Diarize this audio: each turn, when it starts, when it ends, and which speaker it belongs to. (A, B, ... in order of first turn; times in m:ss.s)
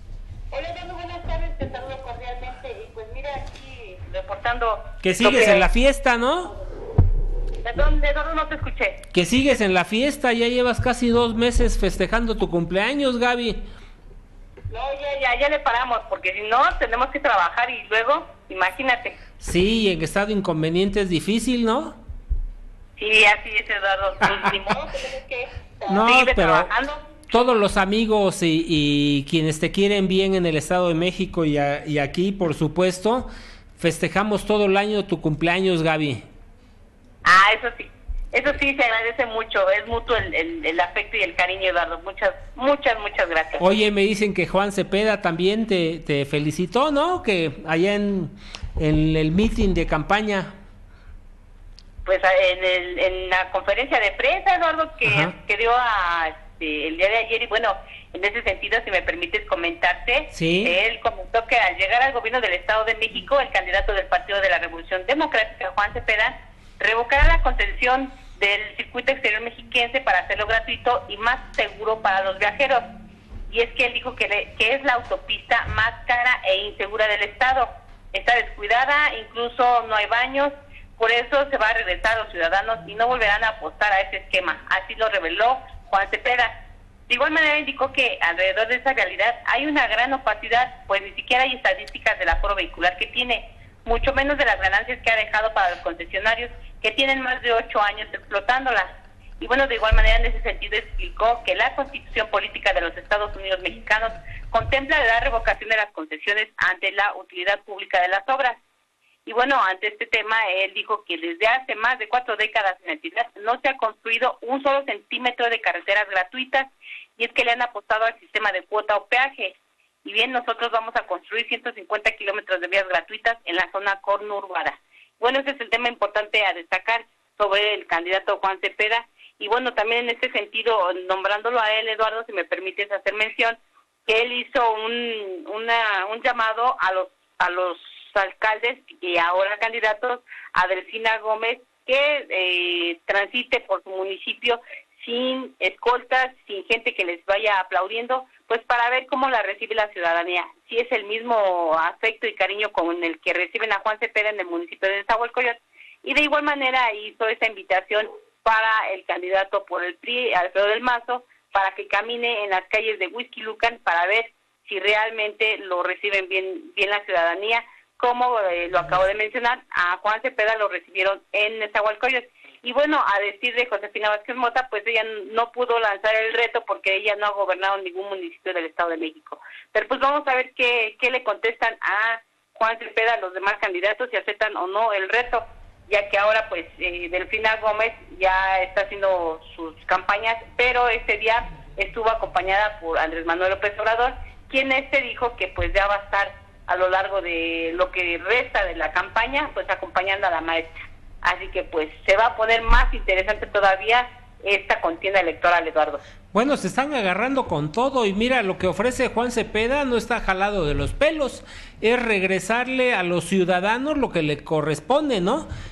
0:00.5-0:05.6 A
0:05.0-0:06.5 B
0:07.6-0:09.0 A
0:09.1-0:13.6 B
0:14.7-0:19.2 A
0:19.4-0:22.0 B
0:23.0-0:27.0 A
0:25.9-0:26.7 B
0:27.3-0:33.3 B
0:33.8-0:36.2 B
0:37.2-0:43.6 A
0:43.6-0:50.5 B
0:52.0-1:12.8 A
0:55.0-0:55.3 B
1:00.3-1:00.7 B
1:13.5-1:26.5 A
1:27.1-1:48.6 A
1:49.2-3:26.0 A
3:26.3-3:35.5 B